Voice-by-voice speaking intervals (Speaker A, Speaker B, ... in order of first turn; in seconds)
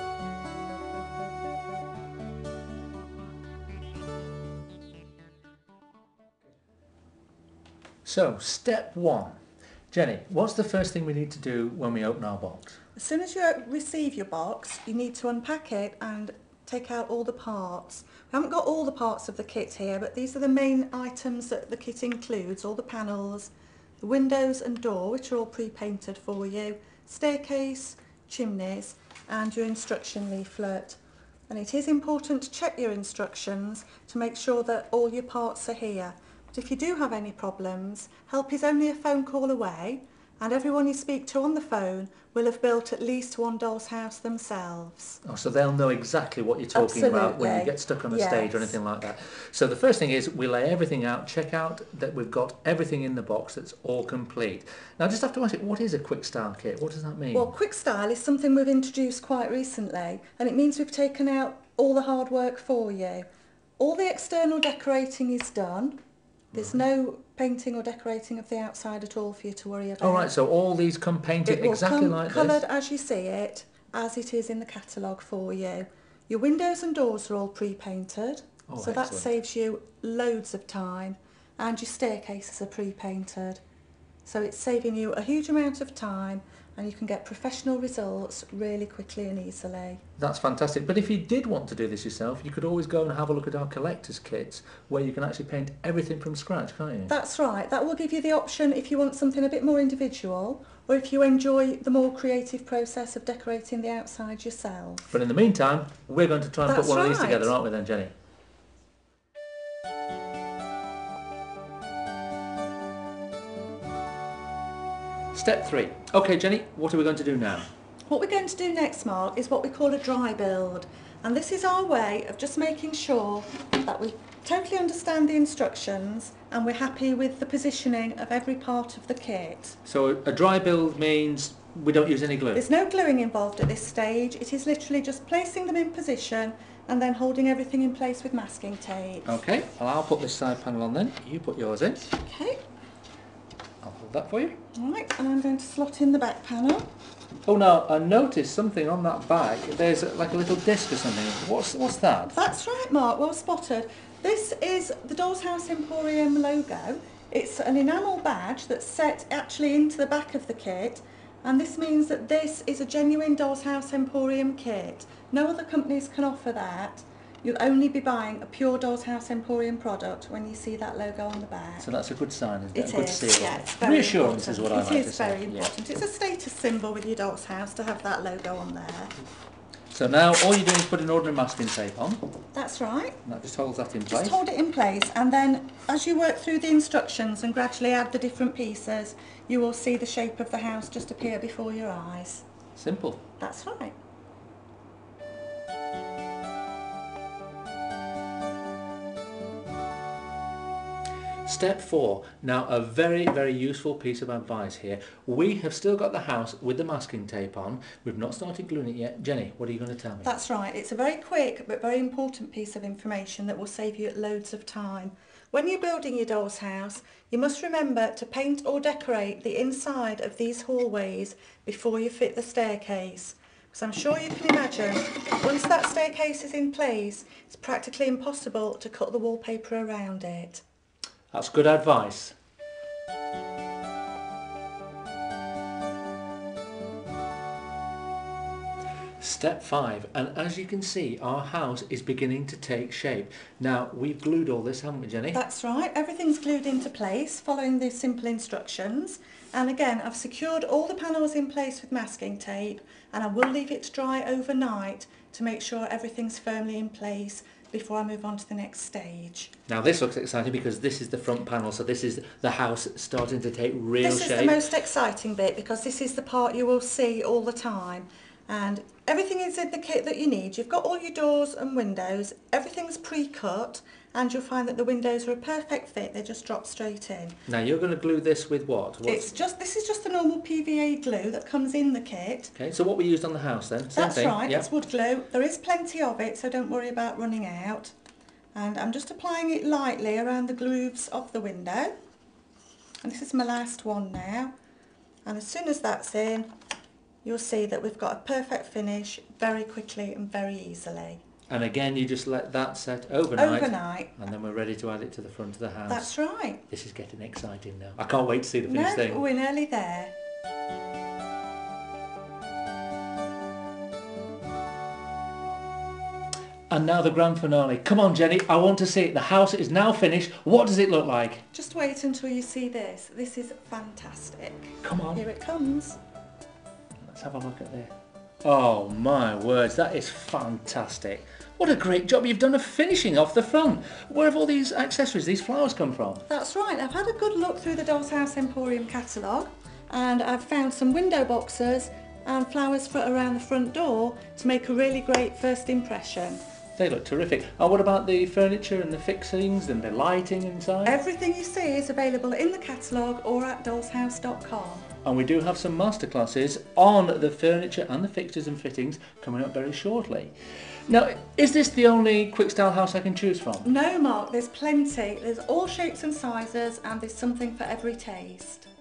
Speaker A: 8.0-9.3, 9.9-12.8, 45.2-57.5, 66.5-66.8, 70.0-72.6, 78.7-79.3, 90.2-97.1, 105.1-108.1, 115.3-117.7, 129.8-132.7, 139.2-142.1, 143.8-144.5, 147.4-152.3, 171.8-175.7, 179.9-182.2, 183.2-184.4, 192.8-193.2, 201.4-210.3, 231.3-232.3, 239.2-245.4, 259.7-264.6, 277.5-279.3, 282.5-284.6, 301.5-306.1, 306.7-309.2, 316.7-321.4, 324.8-325.2, 327.0-327.9, 328.4-336.2, 346.8-351.0, 355.0-360.3, 360.9-363.7
Speaker B: 12.9-45.2, 46.7-48.8, 57.3-63.2, 63.8-66.0, 66.5-70.3, 71.4-83.6, 84.2-90.0, 97.1-105.1, 106.7-107.5, 118.1-129.8, 132.5-139.3, 142.2-142.6, 144.7-146.9, 152.3-171.9, 172.7-179.1, 182.5-183.2, 184.1-192.4, 193.4-194.0, 210.2-230.6, 245.3-259.5, 264.0-277.4, 279.0-282.5, 283.9-287.9, 288.5-291.9, 293.0-294.5, 295.2-296.5, 297.2-301.2, 303.4-304.1, 305.9-306.6, 308.6-310.1, 321.5-326.0, 336.3-346.4, 350.8-354.9, 363.6-368.7